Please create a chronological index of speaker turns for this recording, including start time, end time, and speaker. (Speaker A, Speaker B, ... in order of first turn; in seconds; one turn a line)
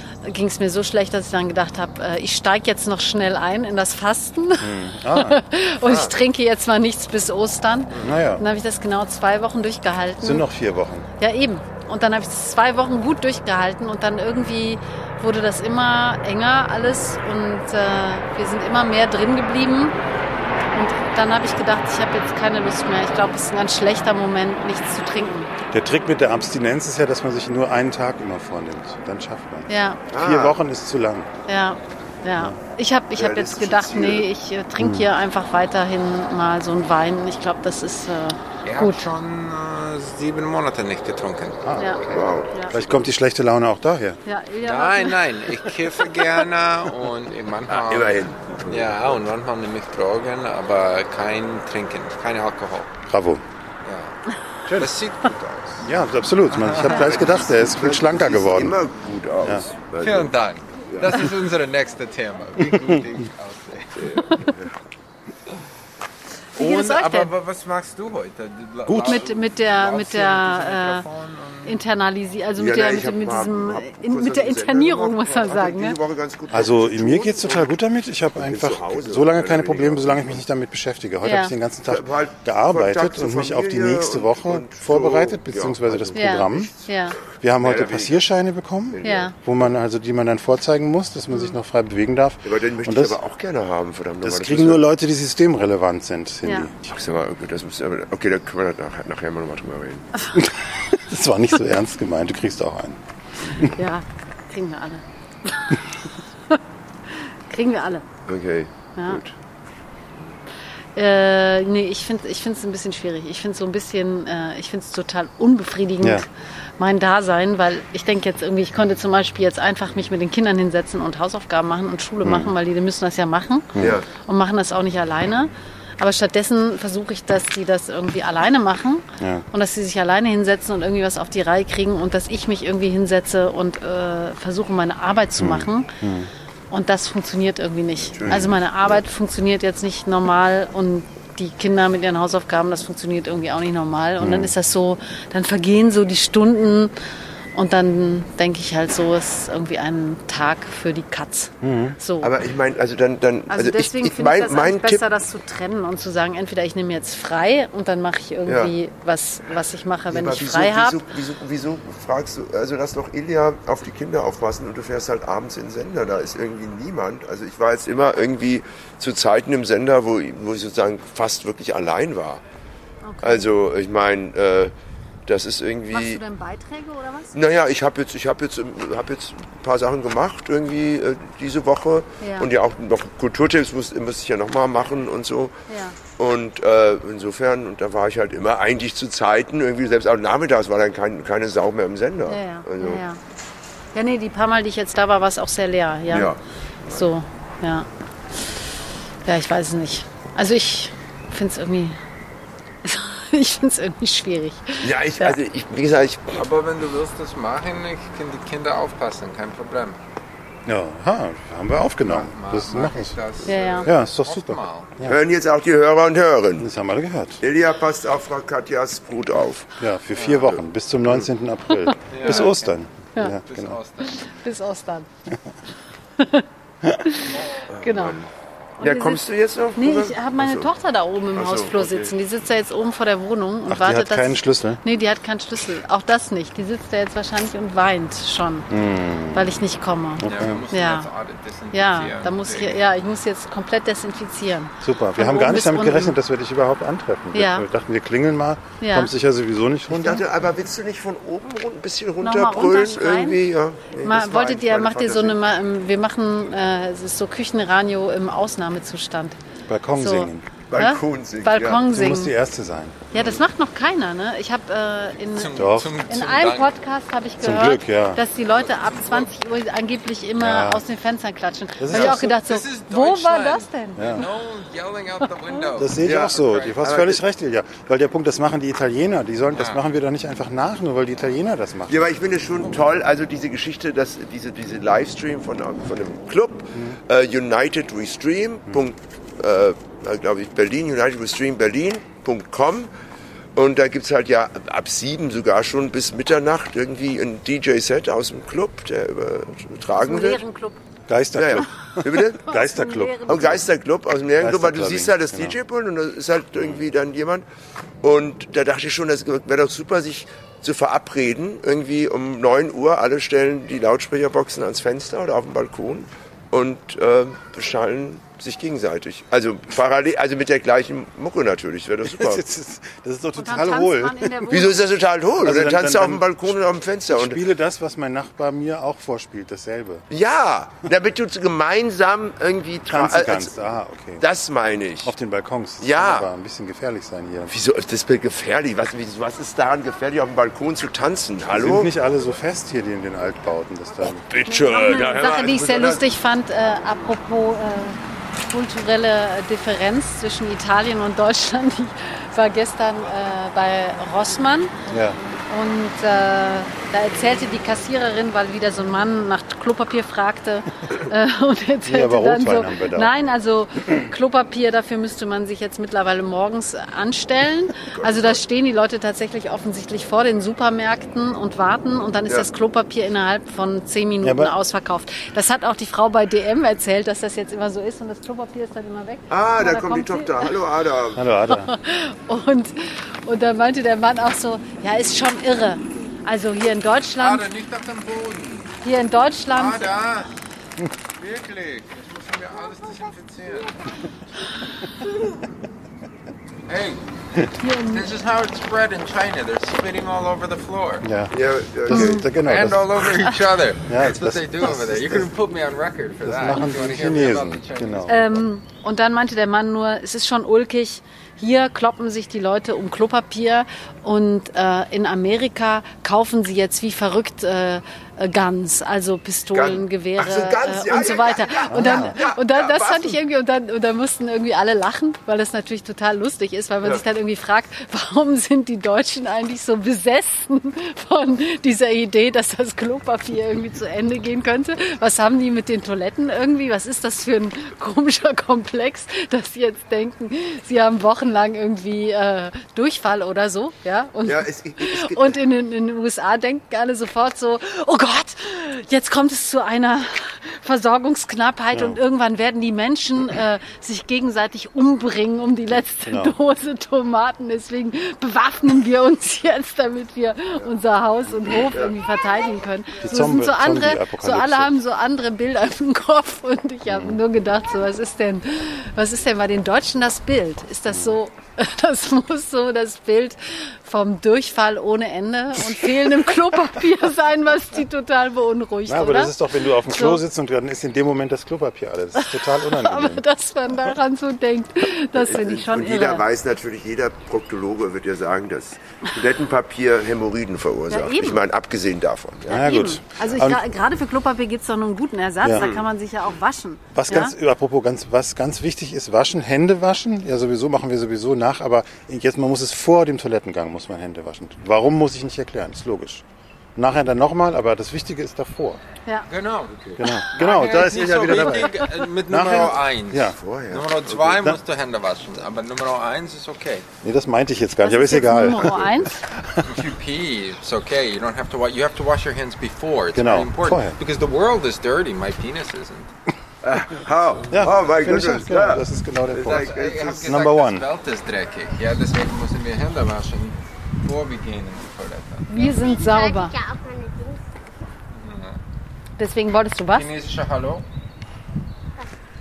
Speaker A: 0.2-10.5
Speaker B: 4.6-5.4
Speaker C: 5.8-6.1
Speaker B: 8.0-8.4
Speaker B: 10.2-11.1
Speaker A: 11.2-20.0
Speaker A: 20.7-25.5
Speaker B: 25.7-31.3
Speaker A: 29.7-30.0
Speaker C: 30.1-30.6
Speaker A: 31.5-39.1
Speaker C: 33.1-34.3
Speaker B: 34.8-35.1
Speaker D: 38.6-41.6
Speaker B: 41.6-44.2
Speaker A: 41.8-42.7
Speaker C: 42.1-43.0
Speaker A: 44.3-45.2
Speaker D: 44.6-52.9
Speaker C: 47.7-49.3
Speaker B: 53.1-53.4
Speaker D: 53.8-54.2
Speaker D: 54.7-55.9
Speaker B: 55.8-58.8
Speaker D: 56.5-57.1
Speaker C: 56.8-60.3
Speaker D: 60.0-64.3
Speaker C: 60.9-61.3
Speaker C: 64.0-64.7
Speaker A: 64.2-64.5
Speaker A: 66.6-67.3
Speaker D: 66.6-71.8
Speaker B: 68.9-69.2
Speaker A: 69.1-71.0
Speaker A: 71.7-76.0
Speaker C: 72.5-77.7
Speaker B: 76.5-86.7
Speaker C: 78.3-80.5
Speaker A: 81.2-81.5
Speaker C: 81.9-86.9
Speaker A: 86.2-87.2
Speaker B: 87.4-93.2
Speaker C: 87.6-88.3
Speaker C: 88.9-89.7
Speaker A: 89.0-89.3
Speaker A: 91.3-91.5
Speaker C: 92.4-94.9
Speaker B: 94.2-96.9
Speaker A: 96.4-96.7
Speaker C: 96.9-100.1
Speaker B: 100.3-103.7
Speaker A: 103.7-106.0
Speaker A: 106.5-108.0
Speaker C: 108.3-109.3
Speaker A: 109.0-109.2
Speaker A: 111.0-116.3
Speaker A: 116.8-135.9
Speaker B: 122.2-122.5
Speaker B: 123.8-124.0
Speaker C: 123.8-124.1
Speaker B: 129.2-129.5
Speaker B: 135.4-136.3
Speaker A: 136.7-146.9
Speaker C: 138.0-139.0
Speaker B: 144.2-144.5
Speaker A: 147.5-152.3
Speaker B: 151.6-152.0
Speaker C: 152.2-155.1
Speaker A: 153.5-161.0
Speaker C: 158.4-158.8
Speaker C: 160.1-172.4
Speaker A: 173.0-173.5
Speaker C: 173.2-174.7
Speaker C: 175.3-176.2
Speaker A: 175.9-177.4
Speaker C: 177.3-185.5
Speaker A: 182.2-182.5
Speaker A: 185.7-186.0
Speaker C: 186.2-193.0
Speaker A: 192.3-193.2
Speaker A: 193.9-196.3
Speaker C: 196.1-197.1
Speaker A: 196.9-197.9
Speaker A: 199.2-202.0
Speaker A: 202.8-205.4
Speaker C: 204.8-206.4
Speaker D: 206.3-210.0
Speaker B: 210.7-213.2
Speaker D: 212.0-214.9
Speaker A: 213.5-213.9
Speaker B: 213.8-215.2
Speaker C: 215.1-216.7
Speaker B: 216.6-217.4
Speaker C: 217.4-219.7
Speaker B: 219.8-223.8
Speaker C: 220.4-221.3
Speaker D: 222.1-222.7
Speaker A: 222.2-222.5
Speaker D: 223.5-224.3
Speaker A: 224.0-225.1
Speaker A: 226.2-226.5
Speaker A: 227.1-228.2
Speaker C: 227.7-230.7
Speaker A: 228.8-229.2
Speaker A: 229.8-238.7
Speaker C: 231.3-232.2
Speaker B: 233.7-234.8
Speaker B: 238.7-239.5
Speaker A: 239.3-241.1
Speaker B: 240.2-240.6
Speaker D: 240.3-242.8
Speaker A: 241.7-246.2
Speaker B: 244.8-250.2
Speaker A: 247.3-247.7
Speaker A: 248.8-249.1
Speaker C: 249.9-255.4
Speaker A: 252.2-253.4
Speaker A: 254.0-259.4
Speaker B: 259.7-260.5
Speaker A: 260.0-262.3
Speaker C: 260.7-261.9
Speaker B: 261.9-263.0
Speaker A: 263.1-274.3
Speaker D: 265.3-266.7
Speaker B: 265.6-266.0
Speaker B: 267.4-268.2
Speaker D: 268.5-269.3
Speaker B: 270.4-270.8
Speaker B: 271.8-272.3
Speaker D: 271.9-276.8
Speaker B: 274.0-274.2
Speaker B: 275.8-282.0
Speaker C: 276.0-277.2
Speaker D: 279.5-279.8
Speaker C: 281.9-292.9
Speaker C: 293.6-300.4
Speaker A: 300.0-300.8
Speaker B: 301.1-303.7
Speaker C: 301.4-302.6
Speaker A: 302.5-303.5
Speaker C: 303.3-307.4
Speaker B: 304.4-305.6
Speaker C: 308.0-322.4
Speaker B: 322.1-324.6
Speaker A: 323.4-324.9
Speaker C: 324.5-327.4
Speaker B: 325.4-326.6
Speaker B: 327.1-330.1
Speaker C: 330.1-335.1
Speaker B: 332.9-334.2
Speaker B: 335.0-337.5
Speaker C: 335.8-336.3
Speaker C: 337.5-341.9
Speaker B: 341.5-344.2
Speaker C: 344.0-346.1
Speaker A: 344.4-354.8
Speaker B: 354.9-355.2
Speaker A: 355.5-380.5
Speaker B: 361.9-363.1
Speaker C: 367.9-368.4
Speaker B: 374.2-374.5
Speaker C: 379.3-381.2
Speaker B: 381.1-381.7
Speaker A: 381.5-387.4
Speaker D: 387.2-388.8
Speaker A: 388.8-390.0
Speaker D: 389.5-390.3
Speaker D: 391.2-393.7
Speaker E: 392.7-393.7
Speaker D: 396.7-397.0
Speaker A: 397.6-398.1
Speaker D: 397.8-401.1
Speaker B: 401.0-401.3
Speaker C: 401.3-402.3
Speaker B: 401.9-403.0
Speaker A: 401.9-402.2
Speaker D: 402.4-408.4
Speaker B: 403.9-405.2
Speaker B: 406.2-408.3
Speaker A: 408.1-480.2
Speaker C: 419.5-423.2
Speaker B: 421.7-422.1
Speaker C: 444.2-445.4
Speaker B: 451.7-452.0
Speaker B: 456.1-456.4
Speaker C: 461.5-462.0
Speaker B: 463.0-464.8
Speaker B: 466.9-467.2
Speaker B: 470.9-471.2
Speaker B: 478.9-483.2
Speaker A: 482.2-486.2
Speaker C: 485.1-492.7
Speaker A: 490.9-491.4
Speaker A: 492.5-497.3
Speaker B: 492.5-493.6
Speaker B: 495.4-495.7
Speaker C: 495.6-495.8
Speaker B: 496.9-506.2
Speaker B: 506.8-508.8
Speaker D: 509.3-516.9
Speaker C: 509.7-510.0
Speaker B: 510.0-513.4
Speaker C: 510.8-511.6
Speaker C: 512.4-514.4
Speaker B: 517.0-519.7
Speaker A: 517.8-519.2
Speaker D: 519.6-526.1
Speaker B: 523.1-524.0
Speaker C: 526.6-530.4
Speaker B: 527.5-530.9
Speaker D: 529.5-535.5
Speaker A: 535.5-536.5
Speaker E: 535.5-537.6
Speaker D: 538.1-538.6
Speaker A: 539.2-540.1
Speaker D: 539.9-540.8